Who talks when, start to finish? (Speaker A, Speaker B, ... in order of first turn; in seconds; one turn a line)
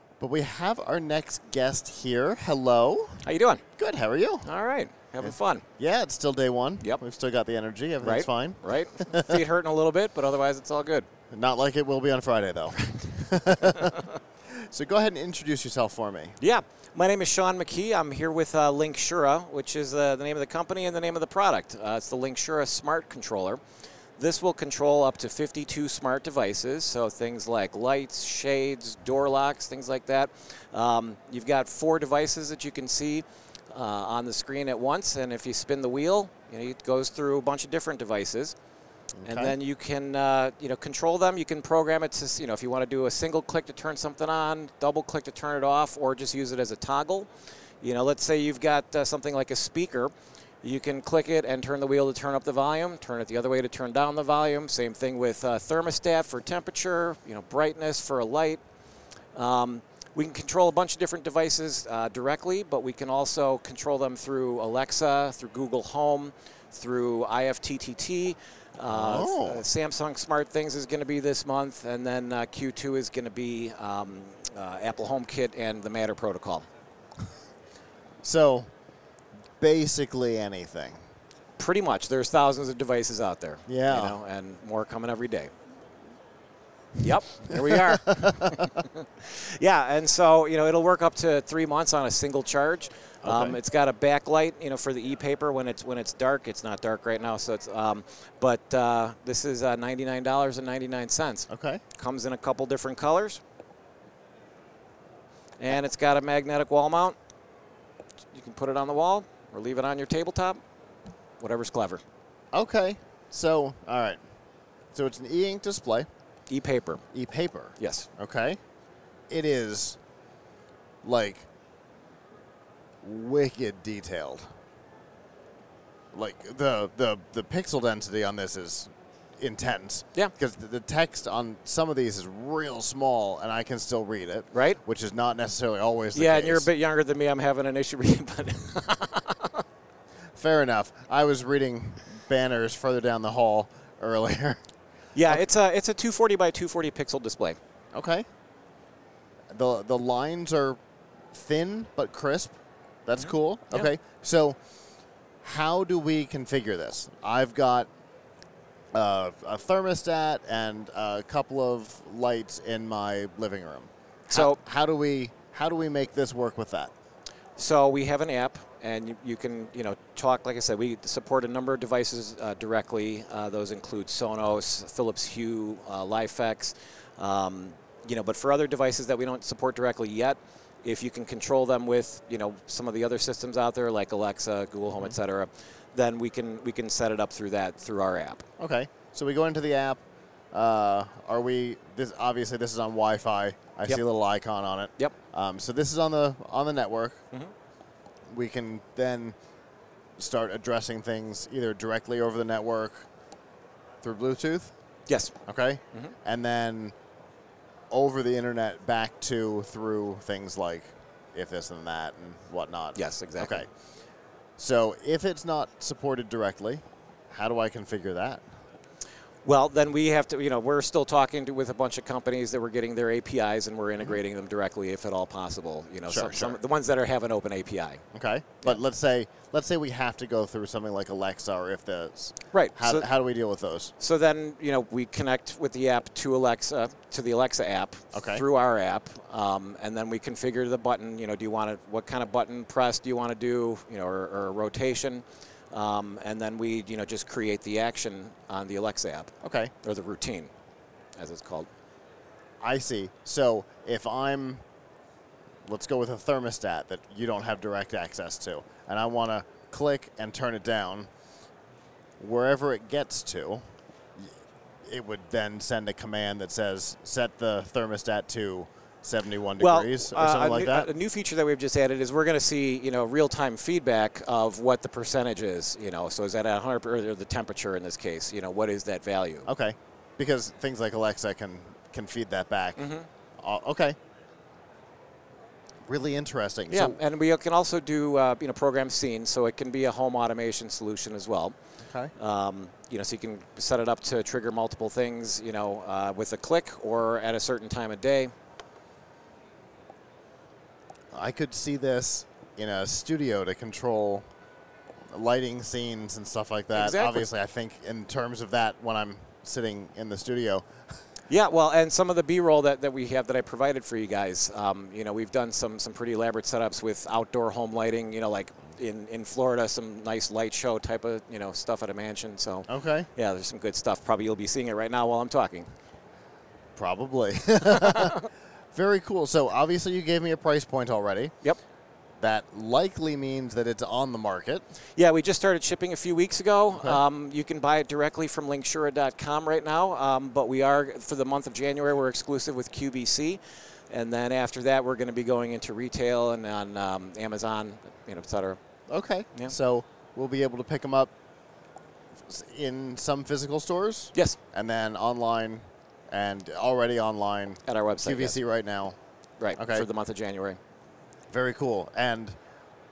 Speaker A: 0.2-3.2
Speaker B: 3.2-3.6
Speaker A: 3.8-4.5
Speaker B: 4.5-5.6
Speaker A: 5.2-9.4
Speaker B: 8.0-11.1
Speaker A: 11.3-16.4
Speaker B: 16.4-23.6
Speaker B: 24.2-38.5
Speaker A: 39.2-39.5
Speaker B: 39.2-47.3
Speaker B: 47.8-50.1
Speaker B: 50.6-58.6
Speaker B: 59.4-76.7
Speaker A: 68.9-69.7
Speaker A: 78.2-78.7
Speaker A: 79.6-81.0
Speaker B: 81.6-85.5
Speaker A: 83.7-84.2
Speaker B: 87.0-103.4
Speaker A: 87.7-88.5
Speaker A: 93.2-93.6
Speaker A: 101.5-101.8
Speaker B: 105.6-107.2
Speaker B: 108.3-110.6
Speaker B: 111.4-112.0
Speaker A: 112.5-114.2
Speaker A: 114.9-116.1
Speaker B: 116.5-117.0
Speaker A: 117.1-118.6
Speaker B: 117.8-118.1
Speaker A: 119.3-120.0
Speaker A: 121.0-121.5
Speaker A: 123.0-124.5
Speaker A: 126.1-136.7
Speaker B: 134.5-134.8
Speaker B: 136.1-139.6
Speaker A: 140.4-144.6
Speaker B: 145.2-147.6
Speaker A: 147.9-148.2
Speaker A: 149.5-150.8
Speaker A: 151.3-154.6
Speaker B: 153.2-153.9
Speaker A: 155.4-157.9
Speaker A: 158.9-166.9
Speaker B: 164.3-164.6
Speaker B: 167.6-188.4
Speaker A: 188.6-190.0
Speaker A: 190.5-197.2
Speaker A: 198.3-199.3
Speaker A: 200.2-203.1
Speaker A: 204.0-204.7
Speaker B: 205.1-205.3
Speaker A: 205.5-206.9
Speaker A: 207.9-213.7
Speaker B: 212.9-213.7
Speaker A: 214.6-218.4
Speaker B: 219.4-228.0
Speaker A: 226.1-226.6
Speaker A: 228.1-233.9
Speaker B: 232.5-233.1
Speaker B: 234.0-250.5
Speaker A: 238.1-238.4
Speaker A: 249.4-249.7
Speaker B: 251.2-251.7
Speaker A: 252.6-254.6
Speaker A: 255.7-261.1
Speaker A: 262.2-263.6
Speaker A: 264.9-270.9
Speaker B: 269.6-279.5
Speaker A: 279.5-284.0
Speaker B: 282.8-283.1
Speaker A: 285.9-287.0
Speaker B: 286.7-291.6
Speaker A: 291.8-292.1
Speaker B: 292.2-298.3
Speaker A: 301.1-304.3
Speaker A: 305.1-310.7
Speaker B: 306.7-307.3
Speaker B: 311.3-325.7
Speaker A: 322.7-323.1
Speaker A: 326.8-331.3
Speaker B: 327.7-328.3
Speaker A: 332.2-334.6
Speaker B: 335.0-348.6
Speaker A: 336.7-337.0
Speaker A: 348.9-351.1
Speaker A: 352.3-359.0
Speaker B: 357.7-358.4
Speaker B: 359.4-360.6
Speaker A: 359.6-359.9
Speaker A: 361.3-362.4